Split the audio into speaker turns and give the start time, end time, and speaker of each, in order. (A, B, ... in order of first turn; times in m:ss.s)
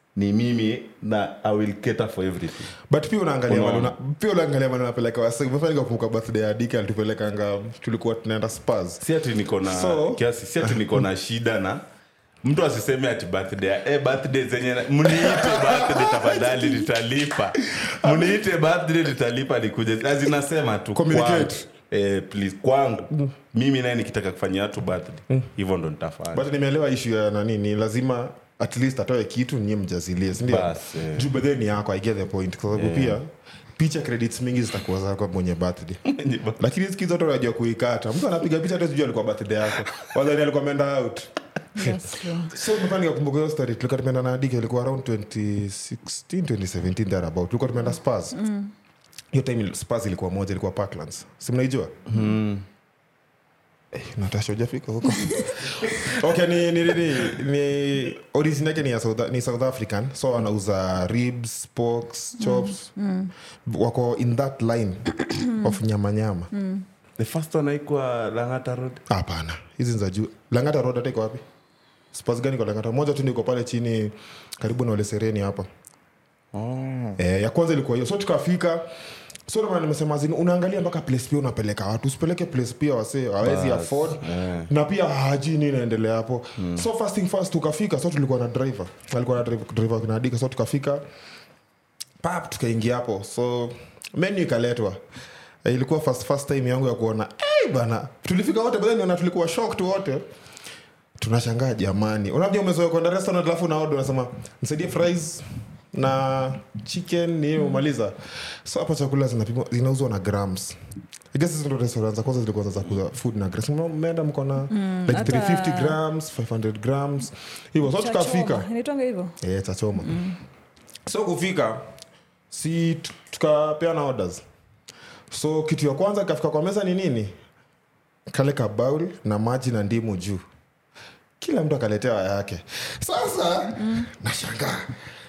0:00.2-0:02.7 A
0:02.9-0:09.0 B
0:03.5-0:03.9 A
0:09.0-0:11.8 A
0:09.6-0:11.0 B
0:12.4-0:26.5 A
0:15.0-0:16.8 B
0:17.7-0:18.3 B
0:20.9-0:21.6 B
0:26.3-0:36.0 B
0:30.4-0:31.3 A
0:32.7-0:33.2 A
0:36.1-0:36.6 A
0:36.6-0:48.4 B
0:41.7-0:42.6 C
0:48.3-0:48.7 C
0:49.3-0:51.9 B
0:52.1-0:52.6 A
0:53.9-1:02.9 B
0:55.2-0:55.6 C
1:02.4-1:03.3 C
1:03.6-1:06.5 B
1:06.5-1:06.8 C
1:07.2-1:09.0 A
1:09.1-1:11.4 B
1:12.1-1:15.7 B
1:16.5-1:17.2 A
1:17.2-1:18.8 B
1:19.5-1:31.0 B
1:23.4-1:24.7 A
1:26.6-1:26.9 A
1:32.2-1:35.0 B
1:35.6-1:40.2 B
1:41.2-1:50.8 B
1:51.3-1:58.7 B
1:54.7-1:56.0 C
1:57.8-1:59.4 C
1:59.4-2:00.2 B
2:00.0-2:00.4 C
2:01.0-2:01.8 B
2:02.5-2:04.4 B
2:05.3-2:07.3 B
2:08.3-2:10.4 B
2:11.4-2:14.9 B
2:13.8-2:14.1 C